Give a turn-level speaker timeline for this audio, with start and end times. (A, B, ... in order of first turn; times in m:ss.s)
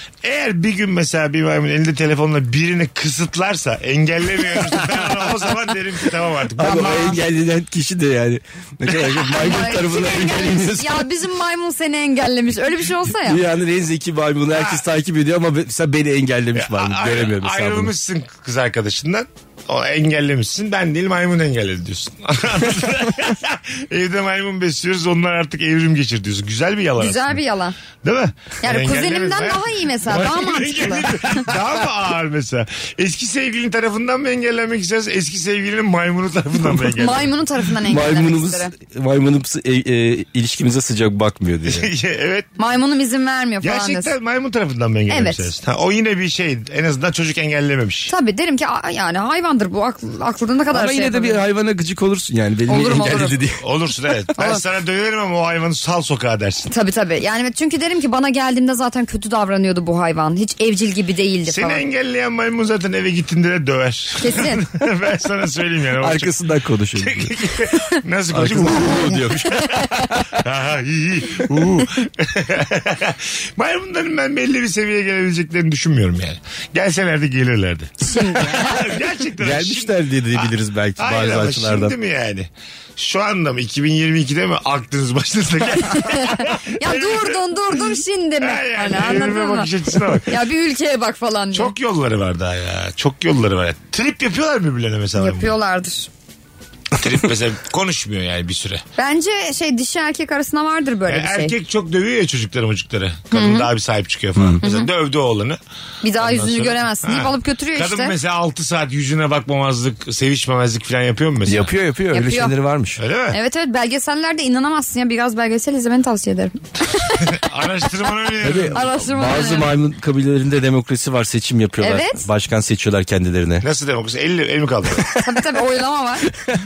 0:00.2-0:07.2 A
0:06.6-0:11.1 B
0:06.6-0:07.1 C
0:09.3-0:13.4 C
0:13.2-0:17.9 B
0:14.5-0:14.8 A
0:16.6-0:27.4 A
0:27.0-0:27.8 C
0:28.0-0:37.4 A
0:28.6-0:31.1 C
0:36.9-0:38.7 C
0:37.8-0:41.9 B
0:41.7-0:42.5 A
0:42.6-0:44.1 C
0:43.6-0:48.1 A
0:45.1-0:45.5 C
0:48.1-0:51.4 C
0:50.7-0:53.6 B
0:52.7-0:53.4 C
0:53.0-0:56.7 A
0:56.7-1:01.8 C
1:01.5-1:06.3 A
1:04.2-1:04.6 C
1:06.0-1:07.4 B
1:07.0-1:27.4 A
1:08.3-1:10.0 B
1:18.0-1:18.8 C
1:19.4-1:22.0 B
1:25.9-1:29.7 C
1:28.4-1:30.3 A
1:30.2-1:31.7 C
1:31.5-1:35.6 A
1:35.2-1:36.1 C
1:37.0-1:38.8 A
1:39.0-1:41.6 C
1:41.1-1:45.6 A
1:43.3-1:43.7 C
1:44.4-1:44.6 B
1:44.6-1:44.9 C
1:46.0-1:48.1 C
1:46.2-1:51.7 A
1:51.5-1:53.0 B
1:52.1-1:52.5 C
1:53.0-1:53.4 A
1:53.3-1:57.3 C
1:57.2-1:59.0 A
1:58.4-2:03.6 B
1:58.7-1:59.7 C
2:01.8-2:02.2 C
2:03.6-2:05.1 A
2:05.2-2:06.3 C